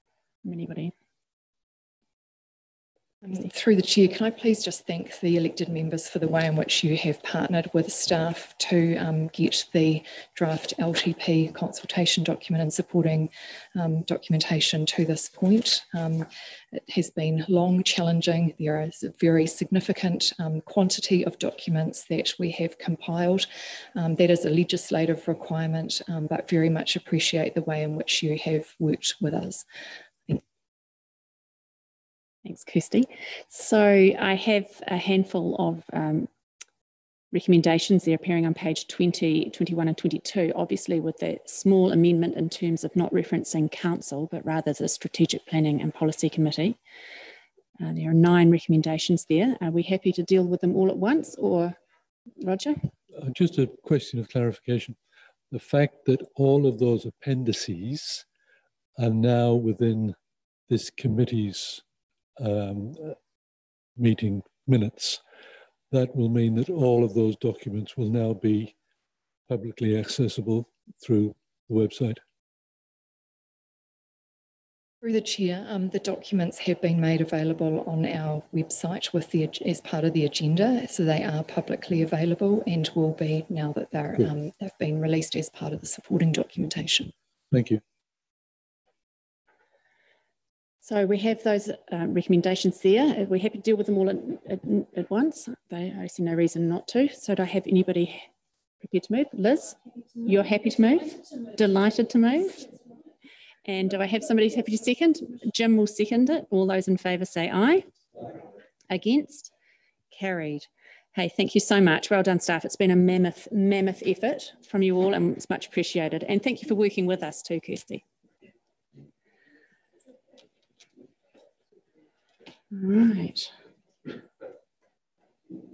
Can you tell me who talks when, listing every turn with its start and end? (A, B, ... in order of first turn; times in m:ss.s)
0:00.4-0:00.9 A
0:03.2-0:29.6 B
0:32.4-0:36.3 A
0:37.3-0:46.8 A
0:47.8-0:51.8 A
0:52.4-0:52.9 A
0:53.2-0:55.0 C
0:55.5-0:58.2 C
0:59.0-1:00.2 C
1:00.7-1:01.8 C
1:02.4-1:03.2 C
1:04.0-1:05.2 C
1:05.9-1:08.7 C
1:09.5-1:12.2 C
1:15.0-1:27.1 B
1:27.5-1:27.8 C
1:30.8-1:38.3 A
1:38.8-1:42.7 A
1:43.6-1:47.9 A
1:48.9-1:49.5 A
1:50.1-1:58.0 A
2:02.7-2:03.5 A